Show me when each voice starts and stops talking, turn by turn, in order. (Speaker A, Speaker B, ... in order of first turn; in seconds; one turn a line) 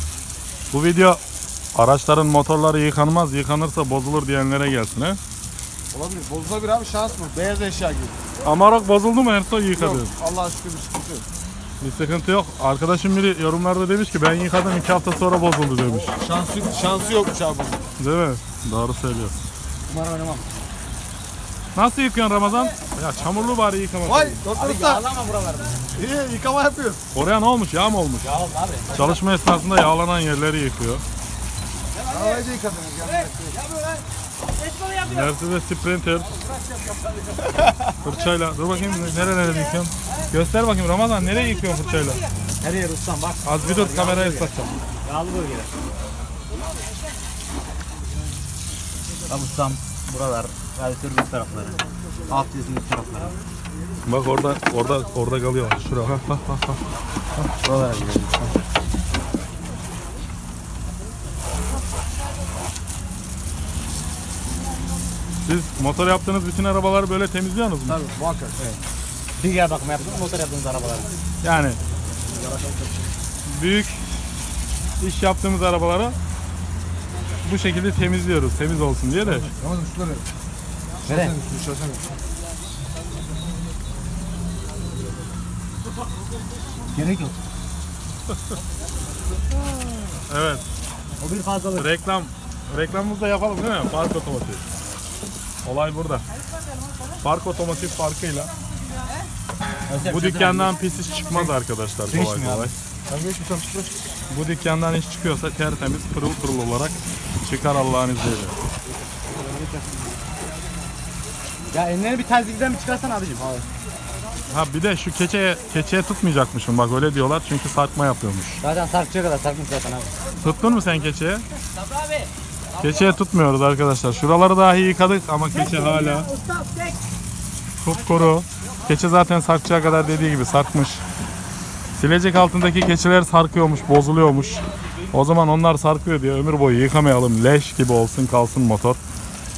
Speaker A: 0.7-1.2
Speaker A: 1.7-5.2
Speaker B: 5.9-8.2
Speaker A: 8.4-10.1
Speaker B: 9.8-11.3
Speaker A: 11.8-16.2
Speaker B: 16.2-17.8
Speaker A: 18.0-19.4
Speaker C: 19.9-20.5
Speaker A: 21.8-24.4
Speaker B: 24.1-25.0
Speaker C: 24.5-25.9
Speaker B: 25.9-27.0
Speaker A: 27.1-28.4
Speaker C: 28.2-29.2
Speaker A: 28.9-31.0
Speaker B: 32.1-33.5
Speaker C: 32.1-32.4
Speaker A: 35.0-36.3
Speaker A: 38.0-42.2
Speaker C: 42.6-45.7
Speaker A: 43.4-44.8
Speaker C: 49.3-53.4
Speaker A: 54.0-56.8
Speaker C: 57.6-58.5
Speaker A: 65.4-68.0
Speaker B: 67.9-68.7
Speaker C: 69.4-71.1
Speaker A: 71.4-71.8
Speaker B: 72.3-73.0
Speaker A: 73.5-74.0
Speaker A: 75.0-76.2
Speaker A: 77.4-79.5
Speaker B: 79.4-80.2
Speaker C: 81.0-81.4
Speaker B: 81.1-82.0
Speaker C: 86.9-87.4
Speaker A: 90.2-90.7
Speaker C: 91.2-91.9
Speaker A: 91.8-94.6
Speaker A: 95.6-96.2
Speaker A: 97.2-98.5
Speaker C: 99.9-100.8
Speaker A: 100.0-102.7
Speaker C: 102.1-102.7
Speaker B: 103.1-104.0
Speaker A: 104.3-108.6
Speaker C: 111.7-113.7
Speaker A: 114.5-118.6
Speaker C: 118.6-120.1
Speaker A: 120.4-121.4
Speaker A: 122.8-126.3
Speaker C: 125.5-127.0
Speaker A: 127.8-131.0
Speaker A: 131.9-139.0